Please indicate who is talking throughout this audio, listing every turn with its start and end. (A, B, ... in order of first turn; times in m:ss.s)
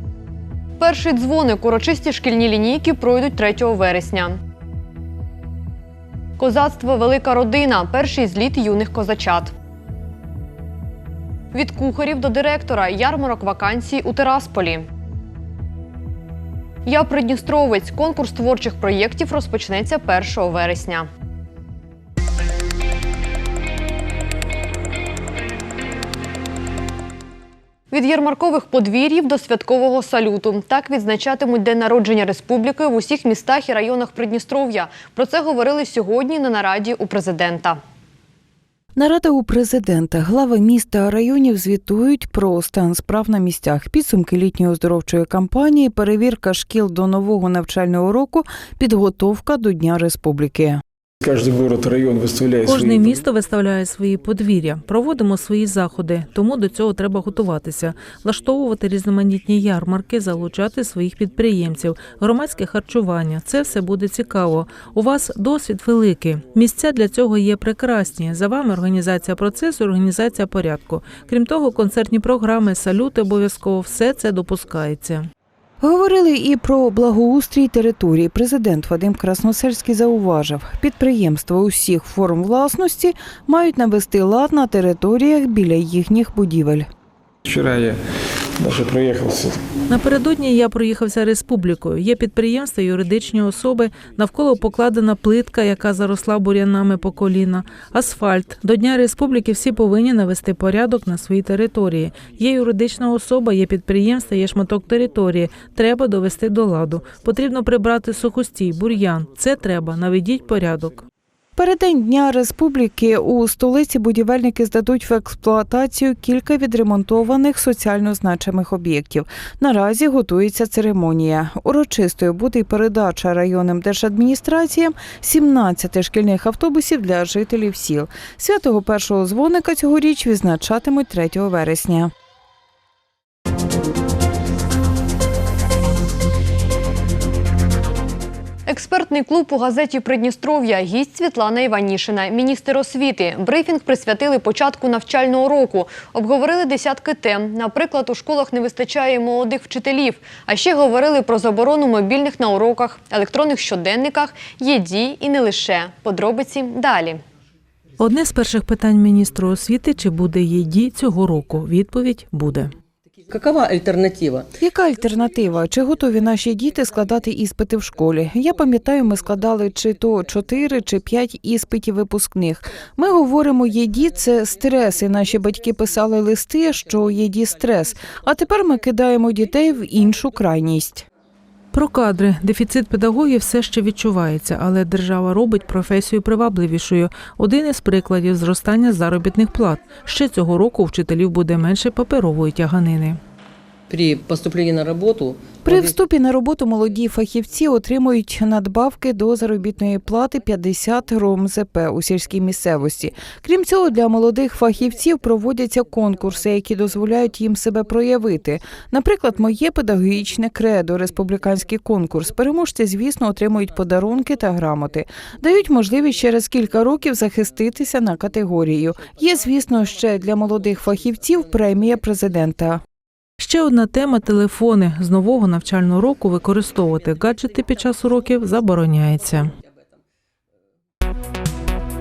0:00.8-0:04.4 A
0:06.4-0:09.5 A
0:11.5-0:14.8 A
0:16.9-0:21.1 A
0:27.9-0:37.8 A
0:39.0-0:50.8 B
0:51.2-0:52.9 C
0:52.6-1:15.3 D
1:15.8-1:26.9 B
1:27.5-1:28.0 C
1:28.6-1:29.6 C
1:29.9-1:51.1 D
1:51.6-2:12.1 B
2:18.7-2:37.2 A
2:38.0-2:42.7 D
2:43.3-2:44.5 E
2:44.6-3:01.1 B
3:01.7-3:13.2 D
3:13.9-3:16.0 E
3:15.6-3:42.8 B
3:43.4-3:49.5 D